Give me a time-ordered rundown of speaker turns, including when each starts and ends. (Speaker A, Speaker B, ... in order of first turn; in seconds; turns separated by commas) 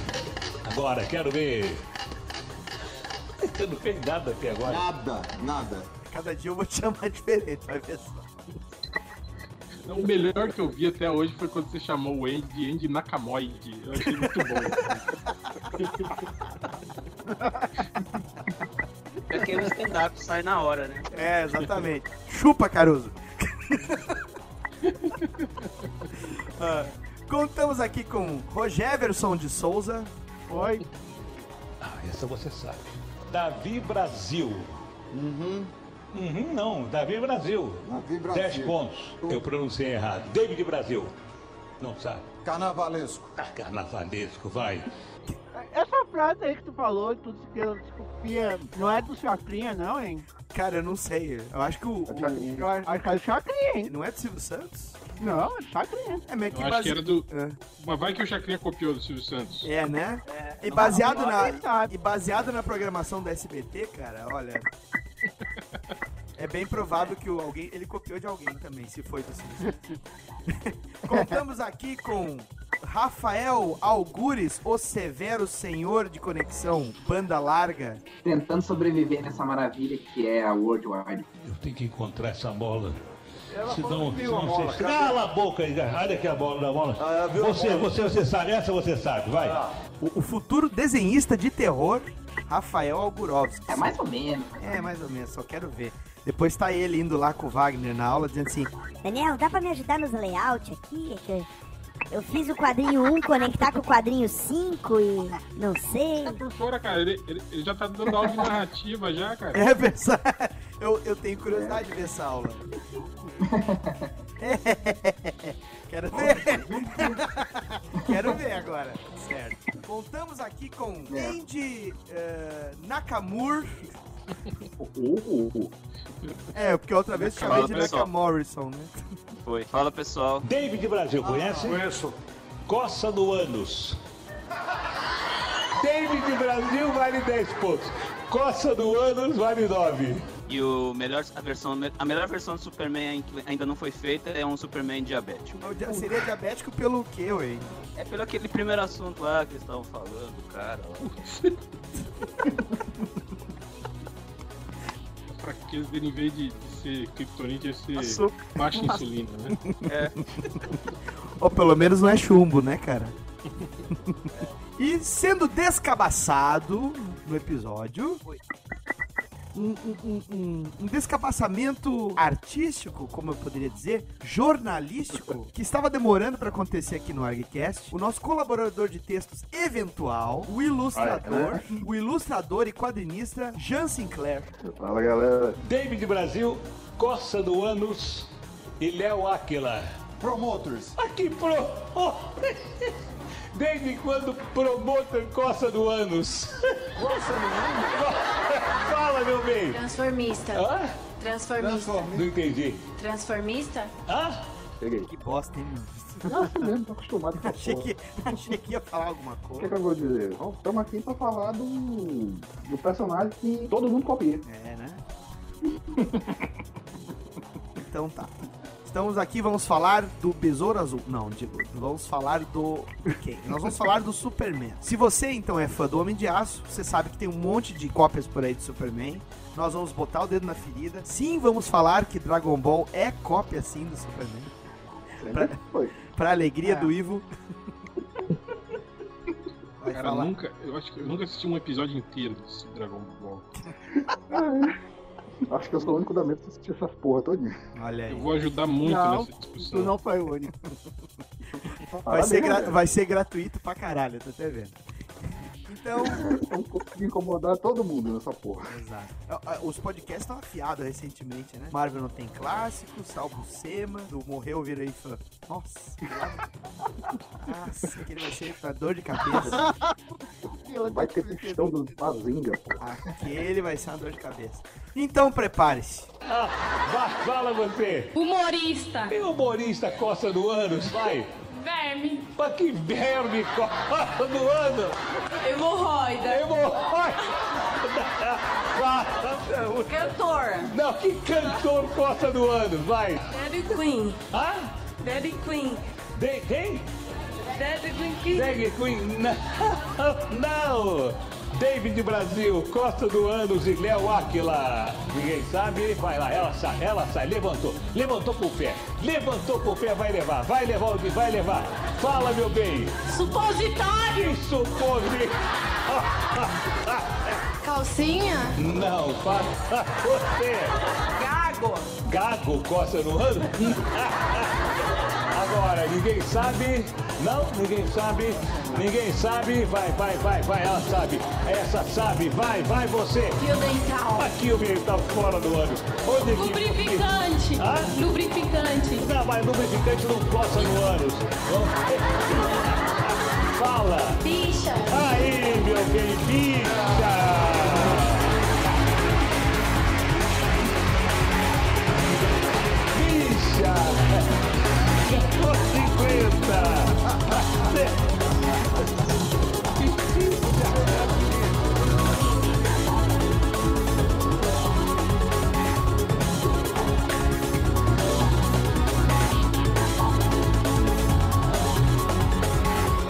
Speaker A: 0.7-1.8, Speaker A: 3.4-4.9, Speaker B: 4.7-5.9, Speaker C: 6.0-8.2, Speaker D: 9.9-15.1, Speaker C: 14.1-14.7, Speaker D: 15.8-16.2, Speaker E: 17.4-17.7, Speaker F: 19.3-21.1, Speaker C: 21.1-24.2, Speaker D: 24.9-26.1, Speaker C: 26.3-30.1, Speaker E: 30.5-30.8, Speaker A: 31.8-34.7, Speaker B: 35.1-35.7, Speaker A: 36.1-41.1, Speaker B: 37.9-39.4, Speaker A: 41.8-42.2, Speaker B: 42.4-43.3, Speaker A: 43.4-44.9, Speaker E: 45.5-50.2, Speaker C: 50.5-52.9, Speaker G: 52.1-52.6, Speaker E: 52.6-53.9, Speaker C: 53.8-55.0, Speaker E: 55.2-56.2, Speaker C: 56.3-57.6, Speaker D: 56.5-57.3, Speaker D: 57.8-59.7, Speaker C: 59.6-64.7, Speaker F: 60.3-61.6, Speaker E: 60.8-61.9, Speaker C: 66.4-69.9, Speaker C: 70.5-78.0, Speaker H: 78.2-81.3, Speaker A: 81.4-83.0, Speaker B: 83.5-85.2, Speaker A: 83.5-89.6, Speaker B: 87.0-88.0, Speaker C: 90.0-93.9, Speaker H: 93.7-94.8, Speaker C: 94.6-98.7, Speaker I: 99.0-101.5, Speaker I: 102.1-106.4, Speaker D: 106.2-109.6, Speaker C: 109.5-112.7, Speaker H: 111.5-111.8, Speaker H: 113.4-114.1, Speaker C: 114.4-123.9, Speaker H: 116.1-117.2, Speaker H: 118.0-118.4, Speaker H: 121.1-121.3, Speaker G: 124.8-125.7, Speaker C: 126.5-128.9, Speaker D: 127.2-128.0, Speaker F: 127.3-128.1, Speaker F: 129.4-130.5, Speaker A: 130.4-132.0, Speaker B: 131.5-132.1, Speaker A: 132.7-134.0, Speaker A: 135.8-140.2, Speaker F: 140.5-146.1, Speaker C: 145.6-147.7, Speaker F: 147.9-151.1, Speaker D: 151.0-151.8, Speaker D: 155.3-159.6, Speaker C: 158.0-159.0, Speaker C: 159.7-163.2, Speaker F: 159.8-160.5, Speaker C: 163.9-168.2, Speaker F: 164.3-164.6, Speaker C: 169.5-184.5, Speaker G: 180.9-181.8, Speaker G: 184.6-185.6, Speaker A: 185.6-189.8, Speaker B: 190.2-190.9, Speaker A: 191.0-192.4, Speaker A: 193.5-199.8, Speaker B: 197.0-198.0, Speaker J: 199.7-202.2, Speaker A: 200.5-201.0, Speaker B: 201.6-202.2, Speaker A: 201.8-202.8, Speaker J: 202.9-203.9, Speaker A: 204.1-204.4, Speaker G: 204.8-205.1, Speaker C: 205.0-206.7, Speaker G: 206.2-207.9, Speaker C: 207.4-209.8, Speaker G: 209.6-214.4, Speaker C: 214.4-215.0, Speaker C: 217.8-234.5, Speaker G: 235.2-235.9, Speaker C: 235.2-237.3, Speaker E: 236.6-236.9, Speaker C: 239.8-240.3, Speaker D: 239.9-243.5, Speaker G: 244.3-244.7, Speaker G: 245.5-247.5, Speaker C: 247.7-248.3, Speaker D: 248.1-249.9, Speaker E: 248.8-250.5, Speaker G: 251.6-252.8, Speaker C: 252.1-256.4, Speaker G: 256.0-258.8, Speaker C: 258.7-266.4, Speaker C: 267.4-269.6, Speaker E: 269.5-269.9, Speaker E: 270.6-272.0, Speaker G: 270.9-272.8, Speaker C: 272.8-276.1, Speaker A: 276.3-278.1, Speaker J: 278.1-279.2, Speaker A: 279.1-281.3, Speaker J: 281.5-282.3, Speaker A: 282.4-285.0, Speaker J: 285.4-286.9, Speaker A: 286.2-290.1, Speaker J: 289.9-290.7, Speaker A: 290.6-293.4, Speaker J: 293.3-294.2, Speaker A: 294.3-294.8, Speaker J: 295.0-295.8, Speaker A: 296.2-296.9, Speaker J: 297.4-298.6, Speaker A: 298.3-313.0, Speaker J: 313.1-314.4, Speaker A: 314.1-315.3, Speaker A: 315.9-317.0, Speaker J: 317.6-318.6, Speaker A: 318.6-320.8, Speaker J: 321.1-322.0, Speaker A: 322.0-324.6, Speaker A: 325.3-333.4, Speaker J: 333.4-334.3, Speaker A: 334.1-338.0, Speaker J: 336.2-339.1, Speaker A: 338.9-342.8, Speaker A: 343.5-344.2, Speaker J: 344.2-345.4, Speaker A: 344.9-348.2, Speaker A: 352.9-354.4, Speaker A: 355.0-357.9, Speaker A: 359.8-361.1